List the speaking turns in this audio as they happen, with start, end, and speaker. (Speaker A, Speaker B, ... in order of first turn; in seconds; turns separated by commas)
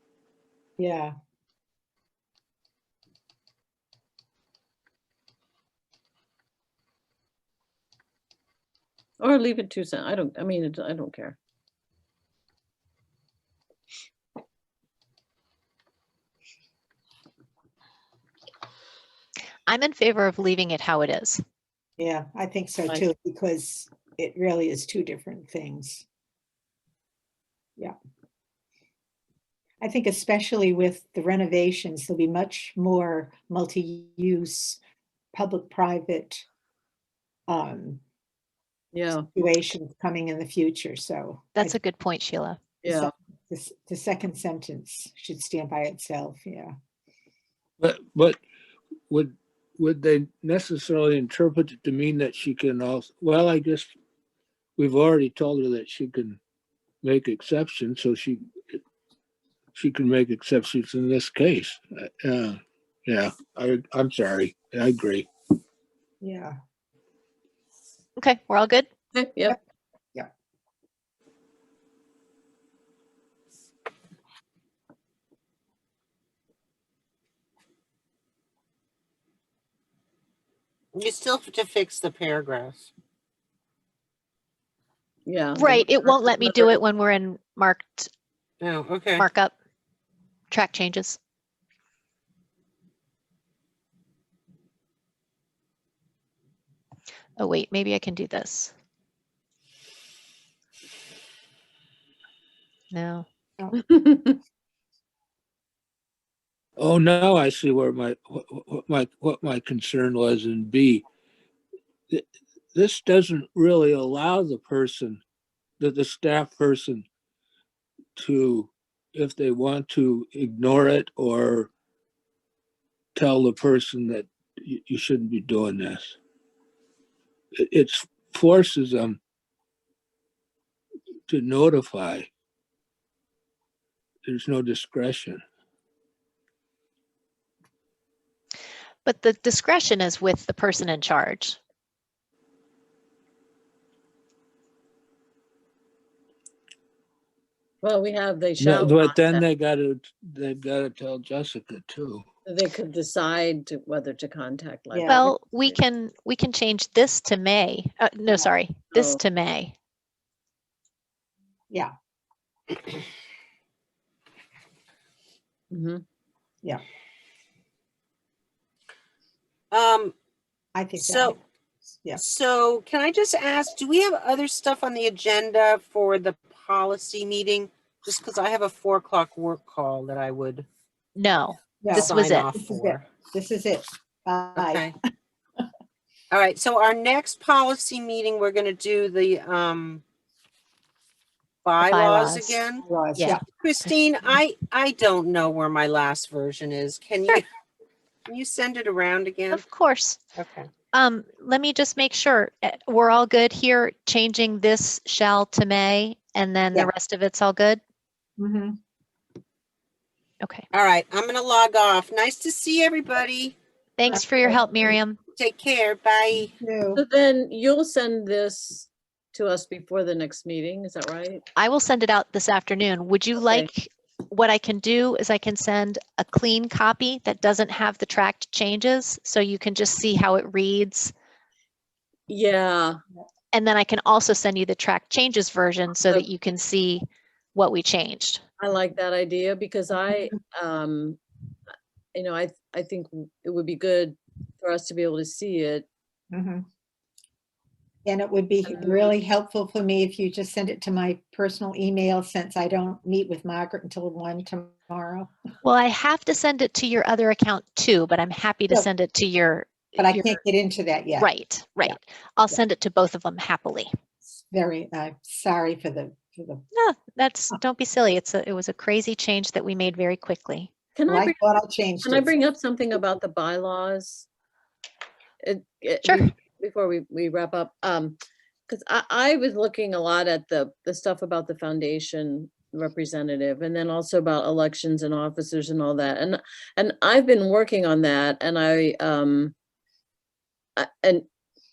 Speaker A: 0.8-1.1, Speaker B: 9.2-11.4, Speaker C: 19.7-21.4, Speaker A: 22.0-26.1, Speaker A: 29.8-34.8, Speaker A: 35.3-36.5, Speaker A: 37.5-38.0, Speaker B: 38.9-39.3, Speaker A: 39.2-41.8, Speaker C: 41.6-42.6, Speaker B: 42.8-43.1, Speaker A: 42.9-46.7, Speaker D: 47.8-48.4, Speaker D: 49.1-53.9, Speaker D: 54.8-56.4, Speaker D: 57.0-58.4, Speaker D: 59.8-65.3, Speaker A: 66.2-66.6, Speaker C: 68.2-68.9, Speaker B: 69.1-69.6, Speaker E: 80.9-82.9, Speaker B: 85.3-86.8, Speaker C: 85.6-88.1, Speaker E: 88.6-89.3, Speaker C: 89.2-89.5, Speaker C: 90.5-91.2, Speaker C: 97.4-98.7, Speaker C: 102.9-103.3, Speaker B: 103.8-104.4, Speaker D: 106.8-111.0, Speaker D: 112.1-115.2, Speaker D: 115.8-117.1, Speaker D: 118.2-121.7, Speaker D: 123.2-126.2, Speaker D: 127.6-129.2, Speaker D: 131.3-132.3, Speaker D: 134.2-135.4, Speaker C: 139.1-141.6, Speaker B: 147.8-149.4, Speaker D: 148.6-152.3, Speaker B: 152.5-155.8, Speaker A: 154.9-155.2, Speaker C: 155.1-159.7, Speaker B: 158.9-159.2, Speaker B: 165.7-166.0, Speaker E: 169.7-170.1, Speaker A: 170.8-171.4, Speaker E: 171.0-171.4, Speaker E: 172.2-180.7, Speaker C: 181.2-182.5, Speaker A: 181.8-184.9, Speaker E: 181.9-183.0, Speaker E: 184.6-184.9, Speaker E: 186.3-190.0, Speaker E: 191.6-192.8, Speaker C: 191.8-192.6, Speaker A: 192.8-193.4, Speaker E: 193.6-197.5, Speaker E: 198.3-199.7, Speaker C: 199.5-200.2, Speaker E: 200.4-200.7, Speaker C: 200.9-207.8, Speaker A: 208.4-208.8, Speaker E: 210.7-213.6, Speaker C: 214.0-215.2, Speaker A: 214.1-214.9, Speaker E: 215.4-216.5, Speaker A: 216.6-217.0, Speaker B: 217.0-221.4, Speaker C: 221.6-231.1, Speaker B: 232.3-233.0, Speaker C: 233.5-238.4, Speaker B: 238.6-241.2, Speaker B: 242.2-245.9, Speaker A: 246.3-246.6, Speaker A: 248.1-255.3, Speaker B: 248.7-249.1, Speaker C: 255.6-260.4, Speaker A: 260.0-261.3, Speaker C: 261.2-263.9, Speaker A: 264.5-266.7, Speaker C: 266.8-270.7, Speaker B: 271.0-271.4, Speaker A: 271.1-272.3, Speaker B: 272.0-274.3, Speaker B: 275.4-289.6, Speaker B: 290.8-291.3